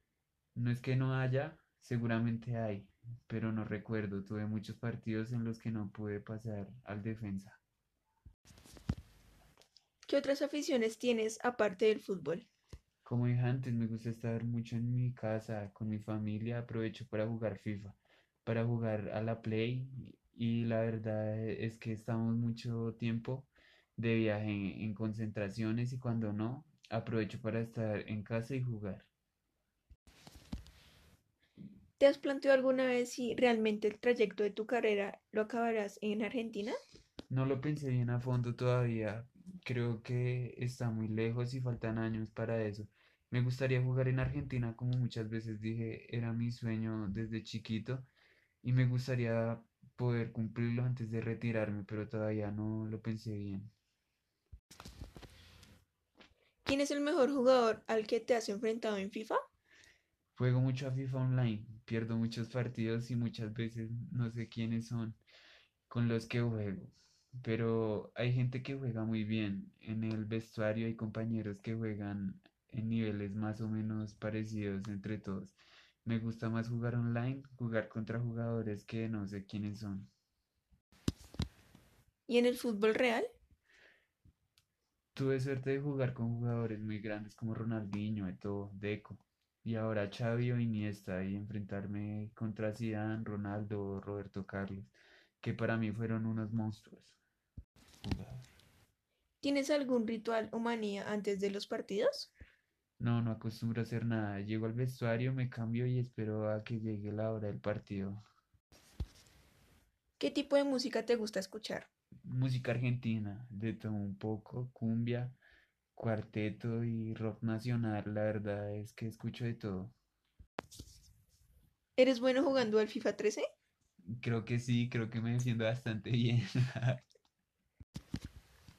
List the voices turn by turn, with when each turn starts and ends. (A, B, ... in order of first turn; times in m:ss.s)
0:00.6-0:07.6 A
0:10.1-0:12.5 B
0:13.0-0:29.1 A
0:32.0-0:36.8 B
0:37.3-0:48.1 A
0:48.6-0:53.7 A
0:56.6-0:59.4 B
1:00.4-1:05.2 A
1:05.9-1:20.1 A
1:22.3-1:23.3 B
1:25.2-1:37.2 A
1:38.0-1:38.5 A
1:39.4-1:42.3 B
1:43.0-1:48.2 A
1:50.2-1:51.9 B
1:52.2-1:55.4 A
1:56.0-2:00.0 A
2:02.0-2:03.4 B
2:04.1-2:07.0 A